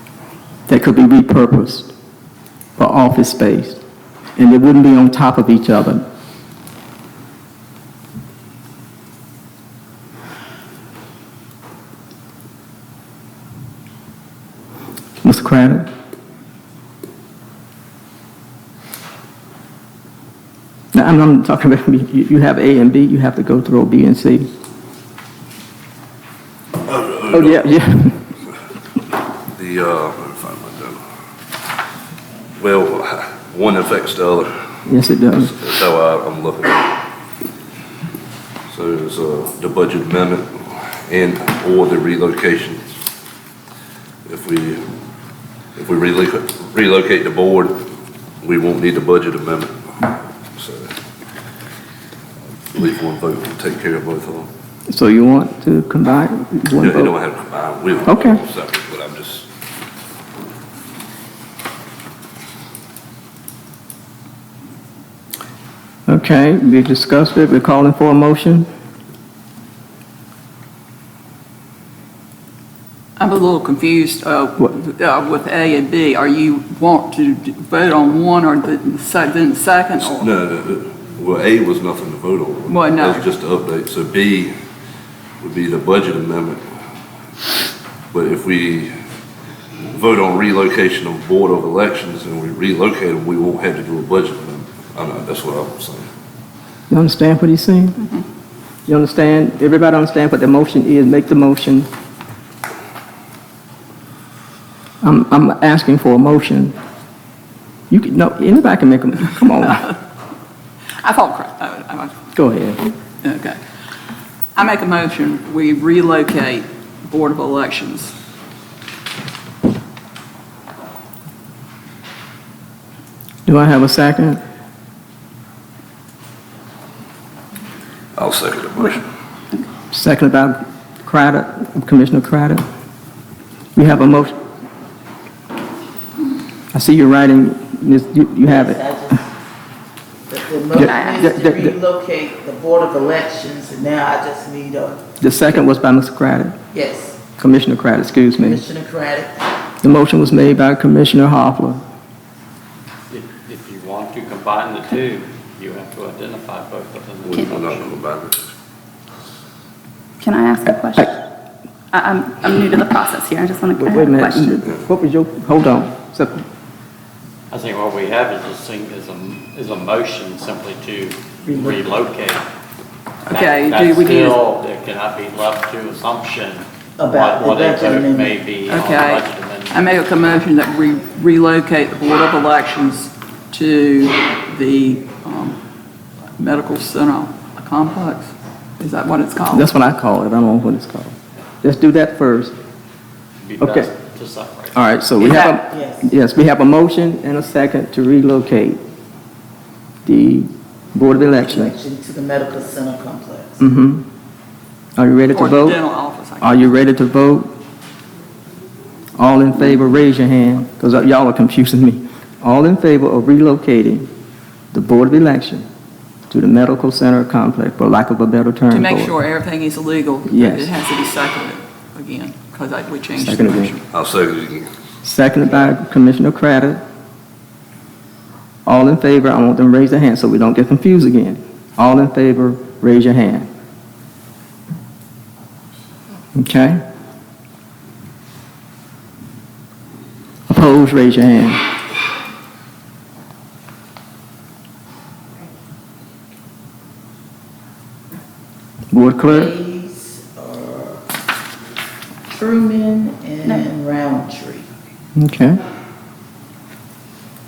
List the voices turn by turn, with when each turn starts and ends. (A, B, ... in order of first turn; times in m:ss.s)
0:00.7-0:01.9 A
0:02.8-0:03.8 A
0:04.4-0:06.0 A
0:15.2-0:15.9 A
0:20.9-0:24.5 A
0:26.8-0:27.6 B
0:27.3-0:28.3 A
0:29.5-0:31.0 B
0:32.6-0:34.7 B
0:34.8-0:35.5 A
0:35.3-0:37.0 B
0:38.7-0:42.8 B
0:44.2-0:44.9 B
0:45.8-0:47.8 B
0:48.4-0:50.9 B
0:52.7-0:54.5 B
0:54.9-0:57.1 A
0:56.8-0:59.5 B
0:58.0-0:58.4 A
1:06.1-1:08.7 A
1:13.2-1:20.3 C
1:20.0-1:24.5 B
1:22.7-1:23.2 C
1:25.4-1:26.6 B
1:28.1-1:28.9 B
1:29.9-1:36.1 B
1:36.9-1:38.0 A
1:38.9-1:41.9 A
1:45.0-1:46.8 A
1:47.9-1:49.9 A
1:51.0-1:52.2 C
1:52.3-1:52.9 A
1:53.2-1:53.6 C
1:54.5-1:58.1 C
2:03.4-2:04.4 A
2:08.2-2:09.0 B
2:09.9-2:12.6 A
2:13.8-2:14.4 A
2:16.7-2:18.8 A
2:18.4-2:19.3 D
2:20.3-2:25.0 D
2:20.7-2:21.7 A
2:20.8-2:21.3 E
2:25.2-2:26.6 A
2:26.7-2:27.2 D
2:27.4-2:28.6 A
2:28.4-2:29.4 D
2:29.8-2:31.8 A
2:33.1-2:38.0 F
2:37.2-2:38.5 B
2:40.2-2:41.2 E
2:41.9-2:44.6 E
2:43.8-2:46.4 A
2:47.5-2:52.4 F
2:51.5-2:51.8 D
2:53.3-2:54.4 C
2:53.3-2:59.8 F
2:57.0-2:58.4 D
2:58.6-3:05.6 C
3:06.4-3:09.7 C
3:09.5-3:12.5 A
3:13.4-3:14.8 F
3:13.6-3:13.9 A
3:14.7-3:18.8 A
3:15.2-3:15.6 C
3:15.7-3:16.1 D
3:20.0-3:21.7 A
3:21.4-3:23.6 D
3:23.6-3:24.0 A
3:25.0-3:25.8 A
3:25.3-3:26.7 C
3:26.4-3:27.5 A
3:29.2-3:34.1 A
3:34.7-3:35.7 A
3:36.3-3:39.2 A
3:38.7-3:43.8 C
3:40.2-3:40.7 A
3:43.2-3:43.7 A
3:43.9-3:44.7 B
3:45.0-3:46.8 A
3:48.6-3:53.5 A
3:56.3-3:56.8 A
4:00.5-4:01.6 A
4:08.9-4:09.5 A
4:09.2-4:11.0 D
4:12.3-4:14.6 D
4:15.2-4:15.6 A